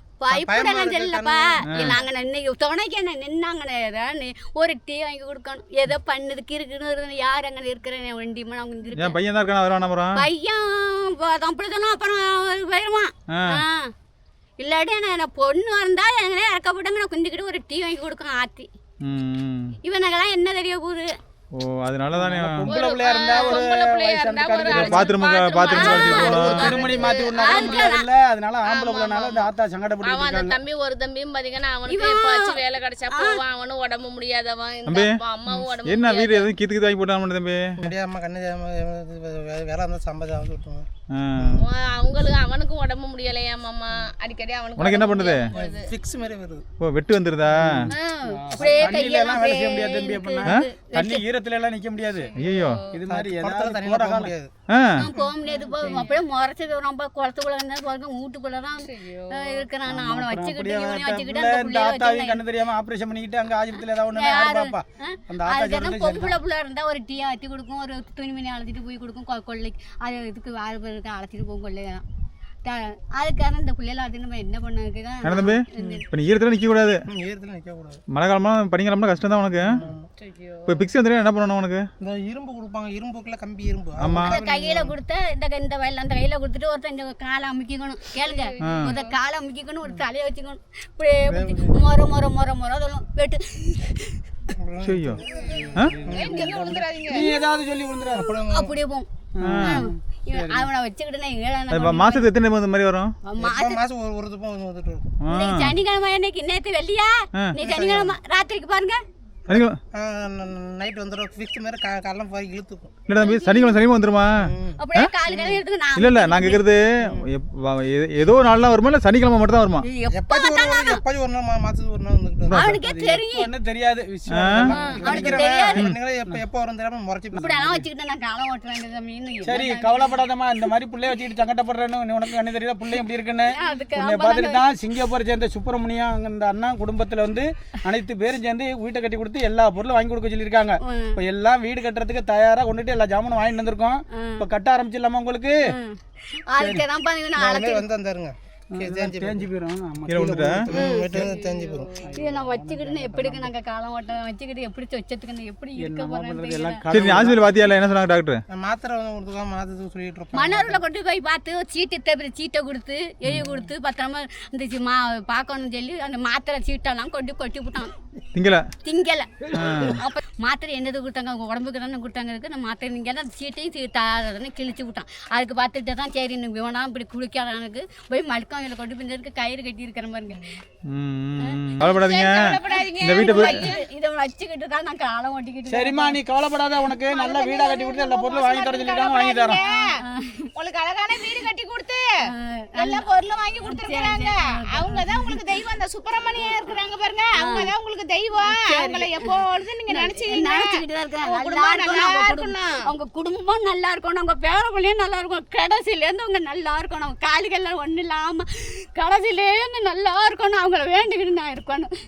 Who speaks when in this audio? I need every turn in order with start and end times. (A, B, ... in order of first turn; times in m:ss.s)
0:00.2-0:09.2 A
0:00.3-0:01.8 B
0:01.7-0:02.0 C
0:09.0-0:10.2 C
0:10.1-0:13.9 A
0:13.3-0:13.6 C
0:14.6-0:18.7 A
0:19.0-0:19.8 C
0:19.8-0:21.2 A
0:21.5-0:22.7 C
0:22.1-0:25.1 D
0:22.6-0:28.0 E
0:24.7-0:26.8 C
0:25.7-0:28.1 A
0:25.8-0:30.6 D
0:28.6-0:29.5 E
0:30.0-0:36.5 E
0:31.9-0:33.4 A
0:34.9-0:35.2 C
0:35.8-0:37.9 C
0:37.8-0:41.6 B
0:41.1-0:41.6 C
0:41.6-0:45.9 E
0:44.8-0:45.5 C
0:45.5-0:46.6 B
0:46.8-0:47.9 C
0:47.5-0:52.3 D
0:47.9-0:51.2 A
0:48.6-0:49.3 B
0:52.4-0:52.8 C
0:52.4-0:53.0 E
0:52.9-0:54.3 D
0:53.0-0:54.5 B
0:54.7-0:55.1 C
0:55.0-1:02.4 A
0:55.2-0:56.2 E
0:58.8-0:59.6 E
0:59.9-1:06.4 D
1:04.1-1:12.0 A
1:12.6-1:16.0 A
1:15.2-1:17.0 C
1:17.1-1:18.0 B
1:18.1-1:19.8 C
1:19.7-1:20.1 B
1:20.2-1:20.8 E
1:20.6-1:21.9 C
1:22.0-1:24.9 B
1:24.0-1:24.4 C
1:24.2-1:34.2 A
1:28.2-1:29.1 E
1:28.6-1:29.0 C
1:31.3-1:31.8 B
1:34.6-1:37.2 B
1:34.8-1:35.2 C
1:35.3-1:37.4 E
1:37.1-1:38.3 D
1:38.1-1:38.8 B
1:38.5-1:42.2 A
1:39.4-1:40.7 D
1:39.4-1:39.8 C
1:41.7-1:43.1 C
1:43.2-1:43.8 A
1:43.4-1:45.1 B
1:45.2-1:45.7 C
1:45.3-1:49.0 A
1:47.6-1:48.2 B
1:49.5-1:49.8 C
1:49.5-1:52.9 B
1:53.1-1:55.1 C
1:53.2-1:53.7 A
1:54.4-1:55.6 B
1:54.8-1:56.6 A
1:56.0-1:59.8 C
1:57.0-1:57.2 B
1:59.8-2:01.0 A
2:00.1-2:02.6 B
2:02.5-2:03.5 A
2:02.5-2:02.8 C
2:02.7-2:05.5 D
2:04.3-2:04.7 C
2:04.7-2:05.8 A
2:04.8-2:07.8 B
2:07.3-2:10.2 A
2:09.4-2:25.6 D
2:13.5-2:14.6 A
2:20.8-2:21.2 A
2:24.1-2:24.4 A
2:25.6-2:27.9 A
2:26.6-2:26.9 D
2:27.4-2:29.5 B
2:28.7-2:30.6 D
2:30.1-2:30.6 C
2:30.5-2:31.9 B
2:30.7-2:31.2 A
2:31.1-2:32.1 E
2:31.9-2:33.5 D
2:32.1-2:36.8 A
2:35.8-2:37.5 D
2:36.9-2:38.4 C
2:38.5-2:40.8 B
2:40.3-2:48.0 A
2:48.3-2:48.7 C
2:48.8-3:00.5 A
2:49.5-2:50.0 C
3:00.9-3:03.6 C
3:01.8-3:03.8 E
3:02.7-3:06.2 A
3:05.7-3:09.6 D
3:07.1-3:09.9 E
3:09.6-3:10.5 A
3:10.5-3:12.0 E
3:12.3-3:13.0 A
3:12.8-3:20.7 E
3:13.6-3:15.6 A
3:16.4-3:16.8 A
3:17.4-3:17.7 A
3:18.4-3:19.4 A
3:19.9-3:31.9 A
3:21.2-3:22.8 E